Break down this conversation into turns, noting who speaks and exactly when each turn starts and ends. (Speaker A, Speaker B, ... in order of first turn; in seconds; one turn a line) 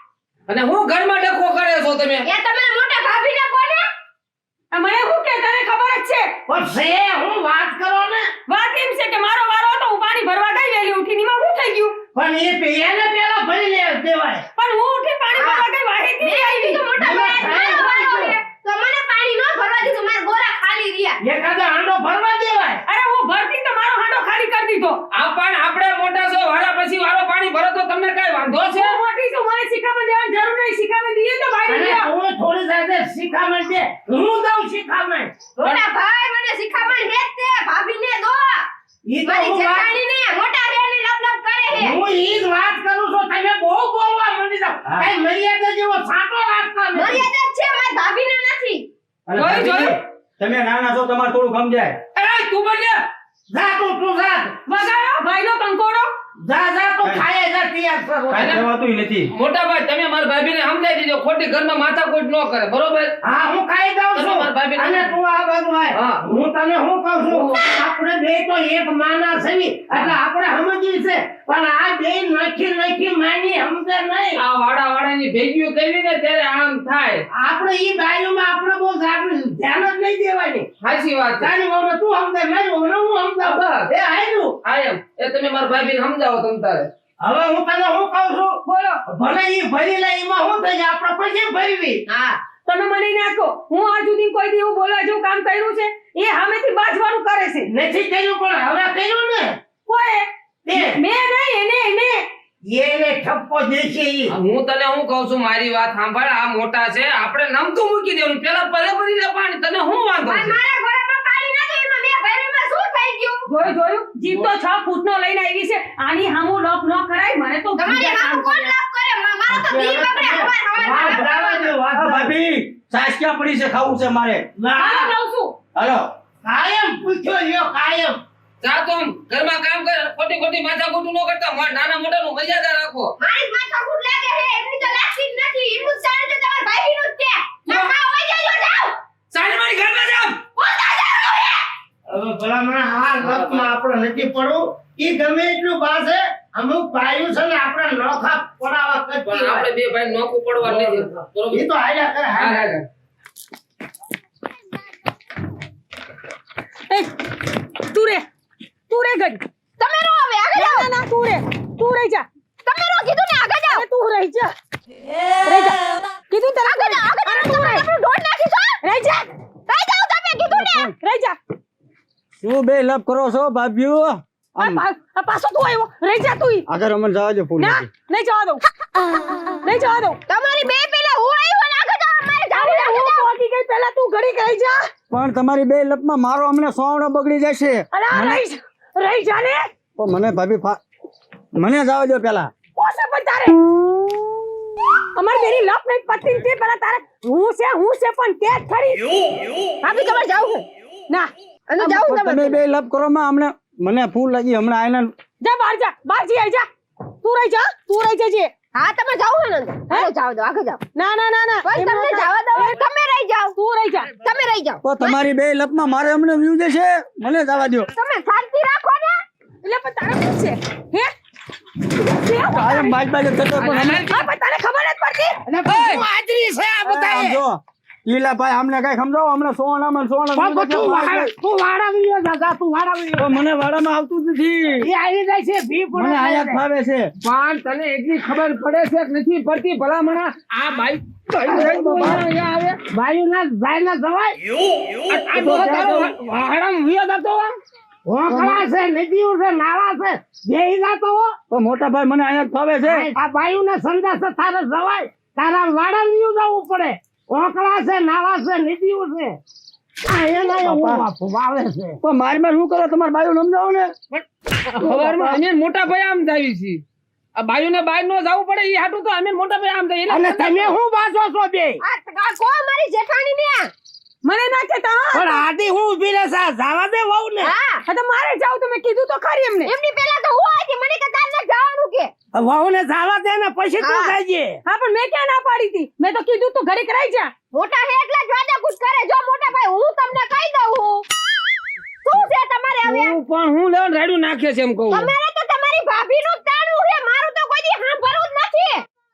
Speaker A: 0.5-2.2
Speaker B: 2.2-3.9
Speaker C: 4.7-6.3
Speaker D: 6.5-8.3
Speaker C: 8.5-11.9
Speaker D: 12.1-14.4
Speaker C: 14.6-16.9
Speaker B: 15.3-15.7
Speaker B: 16.2-21.2
Speaker D: 17.0-18.3
Speaker D: 21.2-22.8
Speaker C: 22.9-25.0
Speaker A: 25.1-28.9
Speaker C: 28.6-32.1
Speaker D: 31.7-35.4
Speaker B: 35.6-38.6
Speaker D: 39.1-39.9
Speaker B: 39.2-42.0
Speaker D: 41.7-47.3
Speaker B: 46.9-48.9
Speaker E: 49.3-52.0
Speaker C: 49.4-50.0
Speaker A: 52.1-53.0
Speaker D: 53.5-54.5
Speaker C: 54.7-56.1
Speaker D: 56.4-58.5
Speaker E: 58.3-59.3
Speaker A: 58.3-58.6
Speaker A: 59.3-63.1
Speaker D: 63.2-74.4
Speaker A: 64.1-65.1
Speaker A: 65.9-66.2
Speaker A: 67.3-67.6
Speaker A: 74.3-77.2
Speaker D: 77.3-80.7
Speaker A: 80.8-81.5
Speaker D: 81.4-84.6
Speaker A: 83.4-83.8
Speaker A: 84.6-86.9
Speaker D: 87.2-92.0
Speaker C: 88.7-89.0
Speaker B: 92.1-92.4
Speaker C: 92.7-97.7
Speaker D: 97.7-99.6
Speaker C: 99.8-102.3
Speaker D: 100.7-101.0
Speaker D: 102.7-104.3
Speaker A: 104.3-110.5
Speaker B: 110.3-113.5
Speaker C: 113.5-118.7
Speaker B: 117.8-121.7
Speaker D: 119.5-122.3
Speaker E: 121.9-124.4
Speaker D: 124.6-125.1
Speaker C: 124.8-125.5
Speaker E: 125.7-126.0
Speaker D: 126.4-128.2
Speaker A: 128.6-133.1
Speaker B: 133.2-138.9
Speaker A: 139.3-140.4
Speaker B: 140.6-141.6
Speaker D: 142.1-149.7
Speaker A: 143.2-143.7
Speaker A: 149.3-151.7
Speaker D: 150.6-152.8
Speaker A: 152.4-152.8
Speaker C: 156.9-158.2
Speaker C: 158.9-159.4
Speaker B: 159.8-160.9
Speaker C: 160.5-162.2
Speaker B: 162.6-163.8
Speaker C: 163.7-164.5
Speaker C: 165.4-167.9
Speaker B: 166.6-168.8
Speaker C: 168.8-169.3
Speaker B: 169.7-170.9
Speaker E: 170.5-170.9
Speaker C: 171.0-171.4
Speaker E: 172.4-174.8
Speaker C: 174.6-176.6
Speaker E: 176.7-177.8
Speaker C: 177.6-178.6
Speaker C: 179.6-180.2
Speaker B: 180.3-183.3
Speaker C: 182.5-184.9
Speaker E: 185.1-188.4
Speaker C: 187.9-189.6
Speaker E: 190.0-190.8
Speaker E: 191.6-192.5
Speaker C: 192.8-193.6
Speaker C: 195.2-199.0
Speaker B: 199.8-200.7
Speaker C: 201.1-201.9
Speaker B: 201.7-202.6
Speaker E: 201.8-205.1
Speaker C: 205.4-206.7
Speaker C: 207.2-208.5
Speaker B: 208.8-210.8
Speaker C: 210.9-212.8
Speaker B: 211.6-213.6
Speaker C: 213.6-214.1
Speaker B: 214.1-215.1
Speaker E: 214.8-217.9
Speaker B: 217.9-219.2
Speaker C: 219.6-221.1
Speaker C: 221.9-222.9
Speaker E: 222.5-224.0
Speaker A: 223.6-224.1
Speaker C: 224.1-226.1
Speaker D: 225.4-227.4
Speaker E: 226.8-231.3
Speaker D: 230.3-233.4
Speaker E: 233.2-234.9
Speaker D: 234.8-236.6
Speaker E: 235.9-237.1
Speaker A: 237.2-242.8
Speaker E: 241.4-242.2
Speaker D: 242.9-244.4
Speaker A: 245.1-247.6
Speaker D: 245.3-245.6
Speaker E: 245.3-246.1
Speaker D: 248.0-251.3
Speaker A: 248.3-248.6
Speaker E: 251.5-253.1
Speaker D: 252.8-259.4
Speaker D: 260.0-262.0
Speaker E: 260.6-261.0
Speaker E: 262.0-263.9
Speaker A: 264.2-266.8
Speaker E: 264.8-265.3
Speaker A: 267.4-270.7
Speaker D: 270.1-271.8
Speaker B: 271.8-273.7
Speaker C: 274.2-275.4
Speaker D: 275.1-277.5
Speaker B: 277.4-277.8
Speaker C: 277.9-279.7
Speaker B: 279.6-282.1
Speaker D: 282.3-284.6
Speaker B: 283.8-284.1
Speaker C: 284.6-287.3
Speaker B: 287.5-291.0
Speaker B: 292.0-293.1
Speaker A: 292.8-295.1
Speaker B: 294.9-298.8